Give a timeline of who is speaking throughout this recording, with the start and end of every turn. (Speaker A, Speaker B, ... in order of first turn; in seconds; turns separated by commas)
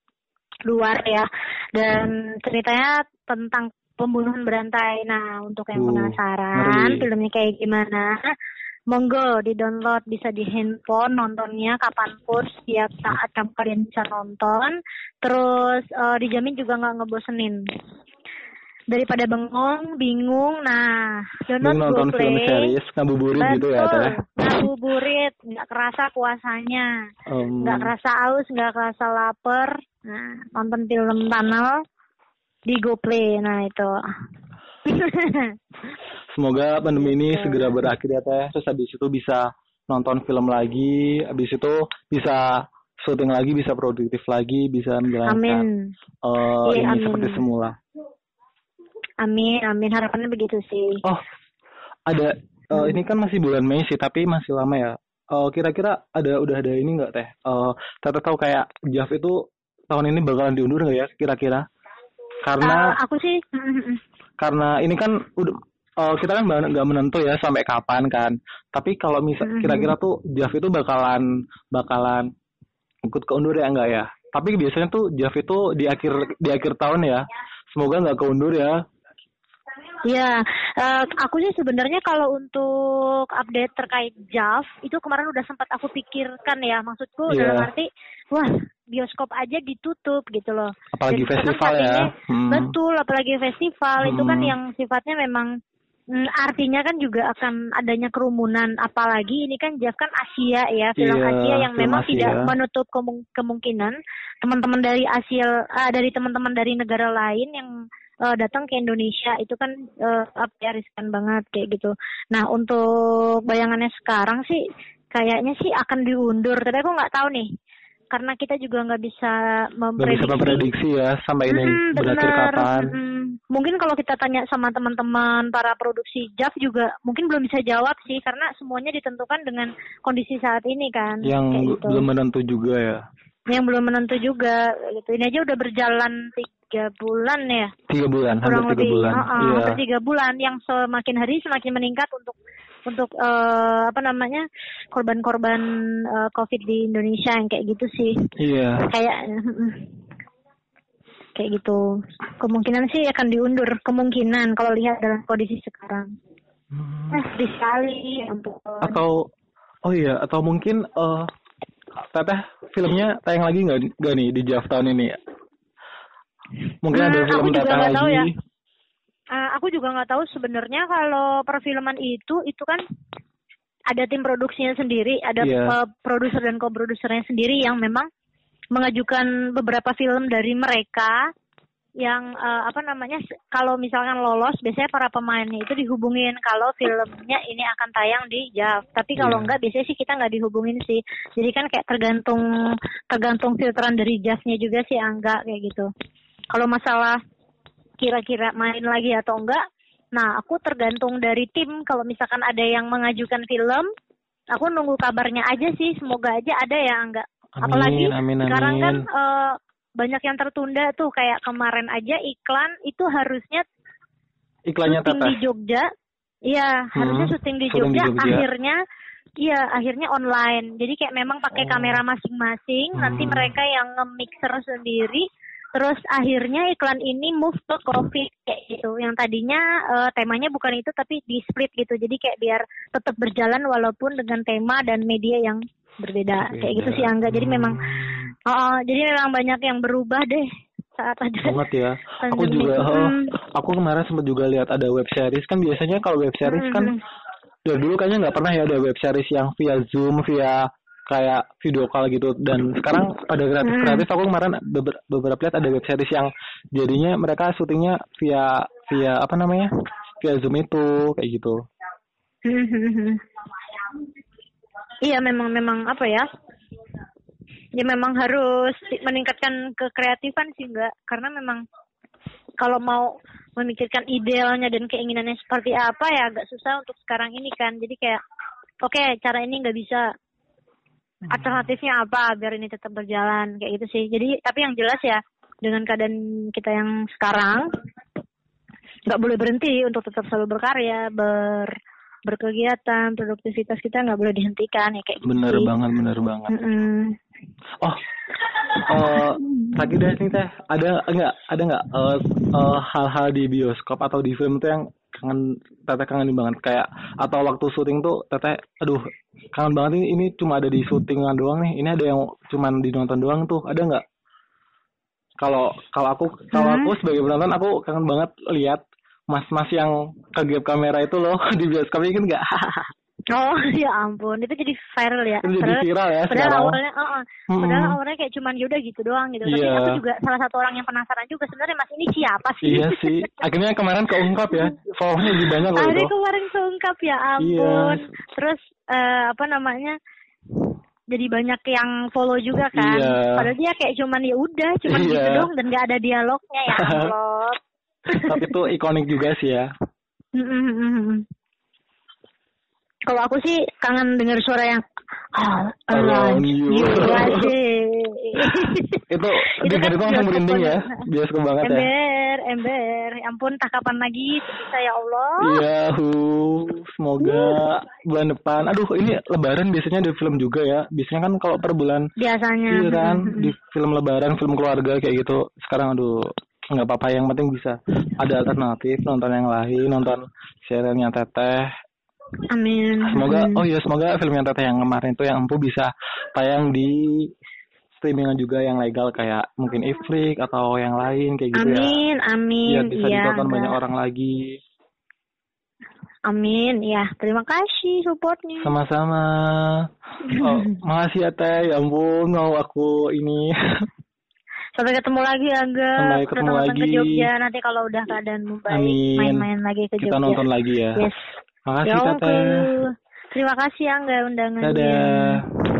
Speaker A: 0.7-8.3, Speaker B: 5.8-7.1, Speaker A: 8.9-17.6, Speaker A: 18.9-22.8, Speaker B: 21.6-24.6, Speaker A: 23.4-26.9, Speaker B: 27.3-27.9, Speaker A: 27.6-31.8, Speaker A: 32.7-33.9, Speaker A: 34.9-35.5, Speaker B: 36.3-45.7, Speaker A: 37.0-37.7, Speaker A: 45.3-45.9, Speaker B: 46.2-47.8, Speaker A: 46.6-47.4, Speaker A: 49.2-51.0, Speaker B: 52.1-59.4, Speaker B: 59.9-61.6, Speaker B: 62.5-62.9, Speaker A: 62.6-64.0, Speaker B: 64.4-72.3, Speaker A: 69.4-69.9, Speaker B: 73.1-77.2, Speaker B: 77.8-78.8, Speaker A: 80.1-95.5, Speaker B: 87.3-87.7, Speaker B: 90.9-92.8, Speaker B: 94.0-94.6, Speaker A: 96.1-107.7, Speaker B: 101.0-102.5, Speaker A: 108.3-112.8, Speaker A: 113.5-114.6, Speaker A: 115.1-117.5, Speaker A: 118.1-120.7, Speaker B: 120.0-123.0, Speaker A: 121.5-132.1, Speaker B: 131.2-133.0, Speaker A: 133.5-137.7, Speaker B: 137.9-139.8, Speaker A: 138.4-142.4, Speaker A: 142.9-148.2, Speaker B: 148.4-148.9, Speaker A: 148.9-149.9, Speaker A: 151.3-151.8, Speaker A: 152.4-156.1, Speaker B: 156.7-157.3, Speaker A: 157.1-159.0, Speaker B: 158.8-159.2, Speaker B: 159.8-161.3, Speaker B: 162.1-165.1, Speaker B: 166.8-168.3, Speaker A: 166.9-168.3, Speaker A: 169.3-172.8, Speaker A: 173.9-178.1, Speaker B: 175.4-175.8, Speaker A: 178.7-181.2, Speaker A: 182.0-192.4, Speaker B: 189.2-189.6, Speaker A: 193.1-195.9, Speaker A: 196.5-197.2, Speaker A: 198.0-199.6, Speaker A: 200.2-203.9, Speaker A: 204.5-213.7, Speaker B: 207.6-209.1, Speaker B: 214.7-215.4, Speaker A: 214.9-215.9, Speaker A: 216.5-218.8, Speaker B: 216.9-218.5, Speaker A: 219.4-237.8, Speaker B: 221.5-222.0, Speaker B: 222.9-223.5, Speaker B: 236.4-238.3, Speaker A: 238.5-241.6, Speaker B: 241.4-246.9, Speaker A: 242.2-243.3, Speaker A: 246.4-247.0, Speaker B: 247.7-259.7, Speaker A: 253.6-254.1, Speaker B: 260.2-261.6, Speaker A: 262.4-263.2, Speaker A: 265.0-266.3, Speaker A: 267.8-271.6, Speaker A: 272.6-278.2, Speaker A: 278.8-280.1, Speaker A: 281.3-287.6, Speaker B: 281.3-281.7, Speaker A: 289.1-291.7, Speaker A: 292.3-295.7, Speaker B: 295.2-296.5, Speaker A: 296.5-297.1, Speaker A: 298.9-299.9, Speaker B: 298.9-309.0, Speaker B: 309.5-314.0, Speaker B: 315.4-322.9, Speaker A: 316.5-317.0, Speaker A: 323.3-333.3, Speaker B: 325.4-326.8, Speaker B: 327.5-328.0, Speaker B: 329.4-330.0, Speaker B: 332.6-336.1, Speaker A: 334.2-334.7, Speaker A: 335.2-340.0, Speaker B: 337.4-338.0, Speaker A: 341.1-348.4, Speaker B: 342.7-343.5, Speaker B: 344.9-345.5, Speaker B: 346.7-347.1, Speaker B: 348.3-349.7, Speaker A: 350.4-351.2, Speaker A: 353.1-354.8, Speaker A: 355.4-359.0, Speaker B: 355.9-357.5, Speaker B: 359.1-361.9, Speaker A: 359.6-361.0, Speaker A: 361.6-365.6, Speaker B: 365.4-372.1, Speaker A: 367.2-367.6, Speaker A: 372.2-373.5, Speaker B: 372.7-381.7, Speaker A: 382.5-383.6, Speaker B: 383.1-387.3, Speaker B: 388.0-392.0, Speaker A: 391.5-393.8, Speaker B: 392.7-394.6, Speaker A: 396.3-398.7, Speaker B: 398.6-399.9, Speaker A: 400.2-400.8, Speaker B: 400.4-403.5, Speaker A: 404.8-411.2, Speaker B: 406.0-407.3, Speaker B: 408.7-409.5, Speaker B: 410.0-411.1, Speaker B: 411.7-412.6, Speaker A: 411.9-415.4, Speaker B: 414.6-415.4